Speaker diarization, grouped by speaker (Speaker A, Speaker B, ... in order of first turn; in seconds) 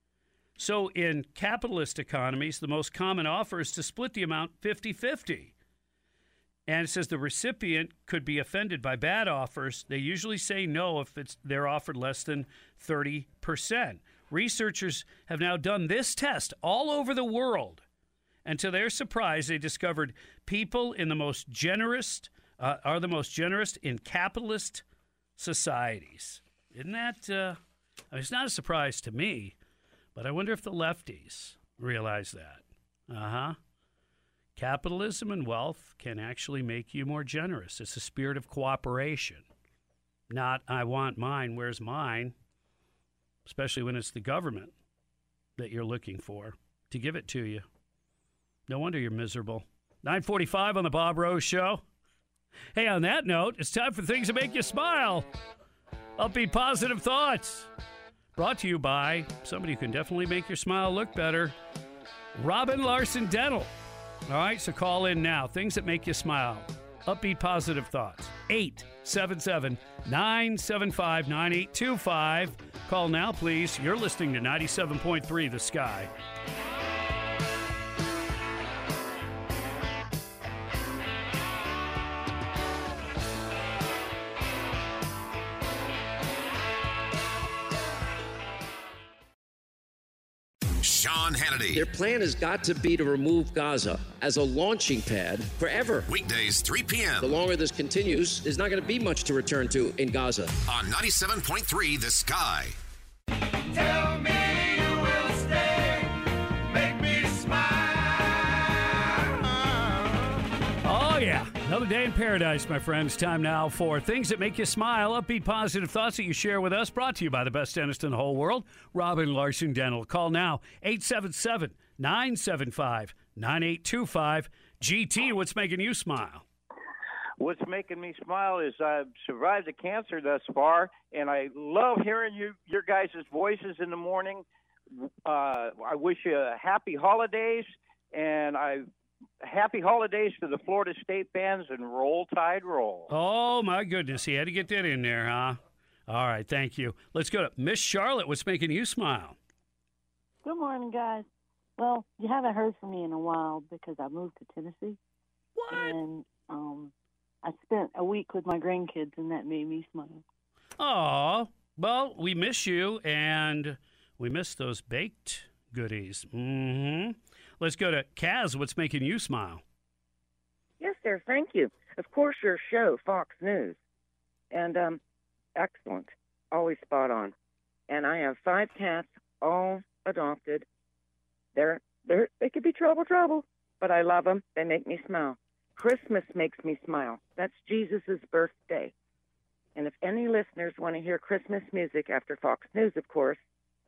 Speaker A: 0.6-5.5, 6.7-17.8, 18.4-24.8, 25.4-27.6, 28.1-29.5, 30.1-33.6, 34.5-39.5, 40.3-42.3, 43.4-44.7, 45.6-47.6, 48.7-51.8, 52.7-55.3, 56.2-57.7, 58.3-61.5, 62.3-63.7, 64.3-76.1, 110.8-126.4, 143.1-149.4, 155.6-156.0, 160.8-169.6
Speaker B: 90.8-91.8, 96.1-97.3, 100.6-102.8
Speaker C: 91.7-96.1, 97.2-100.5
Speaker D: 103.9-105.9, 106.8-107.6, 127.4-138.8, 139.4-143.1
Speaker E: 150.4-151.2, 151.8-155.0, 155.7-156.9, 157.4-160.2
Speaker F: 170.8-173.8, 174.5-175.0, 175.6-177.3, 177.9-180.7, 181.5-188.9, 189.7-193.4